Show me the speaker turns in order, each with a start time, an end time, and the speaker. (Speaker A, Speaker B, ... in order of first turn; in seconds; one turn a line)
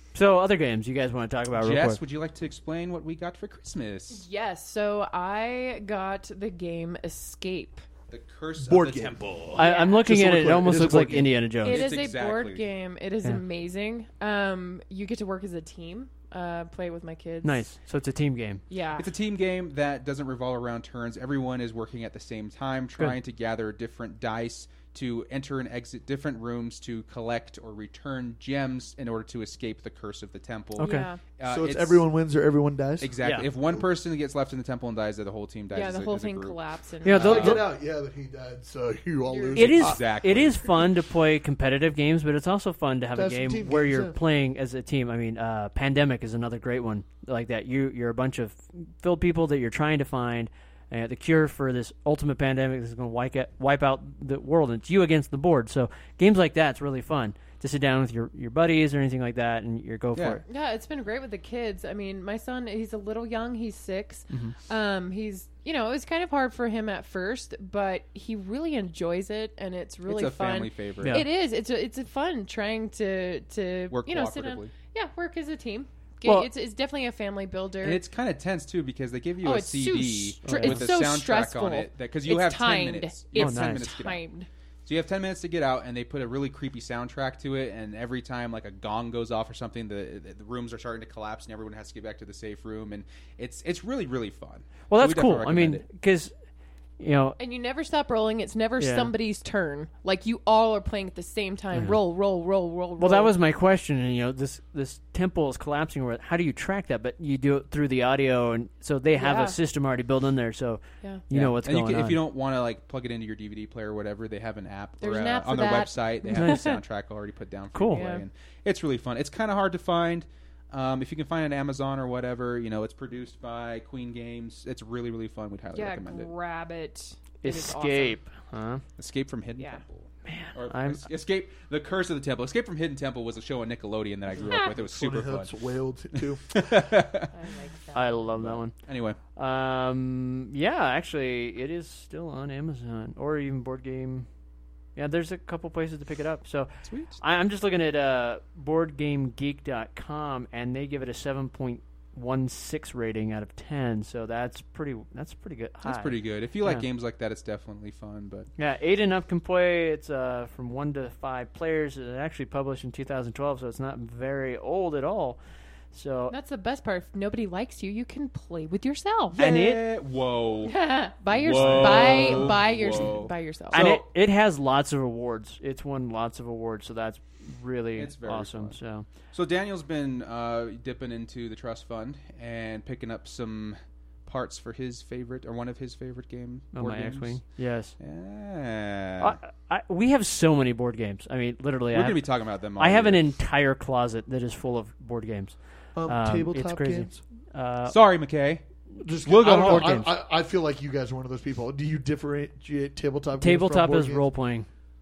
Speaker A: 0.1-2.0
Speaker B: 1.6-4.2
Speaker C: 4.1-7.8
Speaker B: 8.1-9.6
Speaker D: 8.6-9.5
Speaker A: 9.6-11.8
Speaker C: 9.6-10.0
Speaker D: 10.1-11.3
Speaker C: 11.6-17.7
Speaker B: 11.6-12.7
Speaker A: 17.4-18.6
Speaker C: 18.7-19.1
Speaker B: 19.0-32.0
Speaker A: 30.8-31.1
Speaker C: 30.8-31.2
Speaker D: 31.4-33.9
Speaker B: 33.0-37.6
Speaker A: 33.2-33.5
Speaker C: 35.7-37.5
Speaker A: 37.0-37.6
Speaker D: 37.2-40.0
Speaker C: 39.3-39.7
Speaker A: 39.5-60.4
Speaker B: 39.6-40.6
Speaker D: 43.1-44.2
Speaker B: 60.1-60.4
Speaker C: 60.5-78.0
Speaker A: 64.3-64.5
Speaker B: 70.0-71.2
Speaker B: 73.9-74.7
Speaker A: 76.2-76.5
Speaker B: 77.8-84.2
Speaker C: 79.4-84.5
Speaker A: 80.4-80.8
Speaker A: 83.4-83.9
Speaker B: 84.9-95.8
Speaker A: 94.9-96.3
Speaker A: 97.0-97.4
Speaker C: 97.4-103.3
Speaker A: 98.8-99.1
Speaker A: 103.0-112.2
Speaker C: 109.2-109.6
Speaker B: 111.3-126.3
Speaker C: 115.0-116.8
Speaker A: 116.3-116.6
Speaker A: 117.7-118.0
Speaker C: 117.9-118.2
Speaker C: 125.7-128.2
Speaker A: 127.4-128.8
Speaker B: 129.0-135.5
Speaker C: 129.6-129.8
Speaker A: 130.2-131.0
Speaker C: 134.4-134.7
Speaker D: 134.4-136.9
Speaker B: 136.5-137.3
Speaker C: 137.3-138.4
Speaker A: 137.9-138.7
Speaker B: 138.4-139.2
Speaker A: 139.4-144.2
Speaker A: 144.9-156.8
Speaker B: 146.9-147.2
Speaker B: 155.8-158.5
Speaker A: 158.6-165.4
Speaker A: 165.9-166.3
Speaker C: 166.3-169.6
Speaker A: 169.4-169.8
Speaker B: 169.4-170.8
Speaker C: 170.6-173.8
Speaker B: 171.3-174.0
Speaker A: 171.4-172.5
Speaker A: 173.7-179.0
Speaker B: 177.9-178.8
Speaker B: 179.3-187.4
Speaker A: 186.7-187.9
Speaker B: 188.0-189.4
Speaker A: 189.2-192.2
Speaker B: 191.9-193.2
Speaker A: 192.8-195.5
Speaker D: 195.9-197.2
Speaker A: 196.1-197.9
Speaker B: 197.9-198.6
Speaker D: 199.0-204.3
Speaker B: 199.2-200.0
Speaker A: 199.4-200.1
Speaker A: 203.4-204.7